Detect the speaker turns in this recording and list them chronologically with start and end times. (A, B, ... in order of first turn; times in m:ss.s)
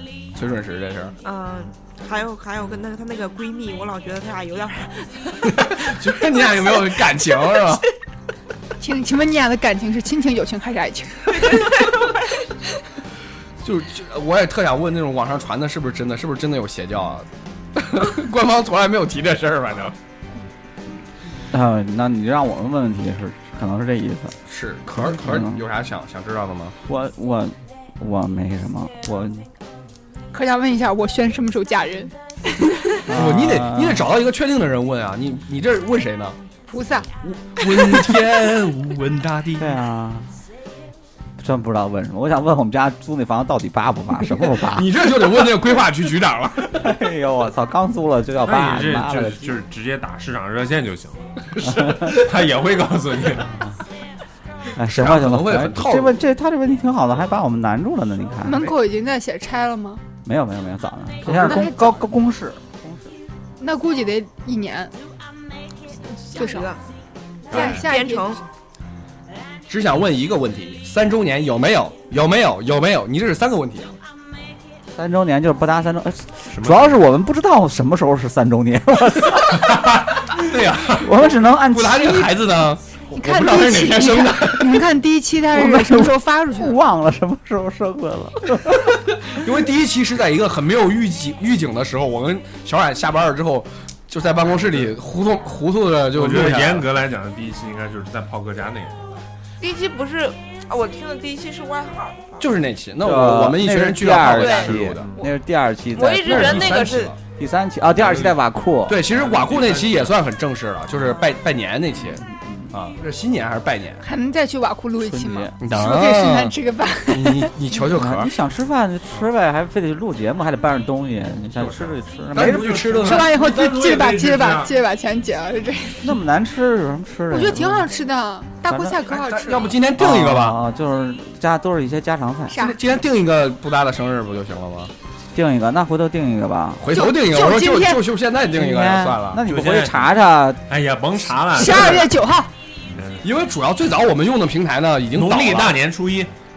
0:00.3-0:01.2 A
0:01.2-0:07.6 B
0:05.5-0:07.8 A
0:08.8-0:11.6 C
0:11.3-0:12.5 B
0:13.6-0:20.0 A
0:21.5-0:24.3 D
0:24.5-0:26.8 A
0:24.9-0:25.6 D
0:26.9-0:29.5 D
0:30.3-0:32.1 C
0:33.0-0:34.1 D
0:33.1-0:36.4 A
0:36.7-0:37.1 C
0:37.2-0:39.8 A
0:39.6-0:40.3 D
0:41.4-0:44.9 D
0:44.4-0:46.9 A
0:46.7-0:49.5 D
0:48.4-0:53.6 E
0:51.7-0:52.1 D
0:54.8-0:58.7 D
0:54.8-0:56.2 A
0:58.4-1:00.0 C
1:00.2-1:03.1 D
1:01.2-1:02.0 C
1:03.6-1:04.9 C
1:06.0-1:06.8 B
1:06.3-1:06.7 C
1:07.5-1:08.4 B
1:07.5-1:07.9 E
1:07.5-1:08.4 C
1:09.7-1:14.0 A
1:14.9-1:19.8 D
1:16.5-1:17.0 E
1:19.5-1:21.0 E
1:20.3-1:24.8 A
1:21.0-1:22.3 D
1:23.1-1:26.8 C
1:25.5-1:28.9 D
1:29.1-1:36.9 A
1:36.1-1:39.1 E
1:39.6-1:42.6 B
1:42.4-1:45.1 A
1:43.0-1:46.9 D
1:44.3-1:45.3 B
1:45.9-1:47.1 B
1:46.2-1:47.2 A
1:47.4-1:49.0 D
1:48.0-1:48.4 E
1:48.9-1:54.0 A
1:49.1-1:50.1 E
1:52.1-1:52.7 D
1:54.0-1:57.5 C
1:55.0-1:55.5 D
1:55.6-1:56.6 A
1:57.1-1:58.3 A
1:57.8-2:02.8 D
2:01.6-2:03.3 A
2:02.4-2:04.7 E
2:03.0-2:06.1 C
2:06.0-2:07.9 D
2:07.3-2:09.7 C
2:08.7-2:09.0 D
2:09.1-2:10.6 A
2:10.0-2:12.6 D
2:12.5-2:12.8 C
2:12.6-2:14.9 A
2:15.3-2:16.8 D
2:16.8-2:19.4 A
2:16.9-2:18.0 C
2:18.5-2:20.6 D
2:19.4-2:20.1 E
2:20.7-2:22.1 E
2:21.5-2:22.5 C
2:22.9-2:23.2 E
2:23.2-2:25.8 A
2:25.1-2:26.3 E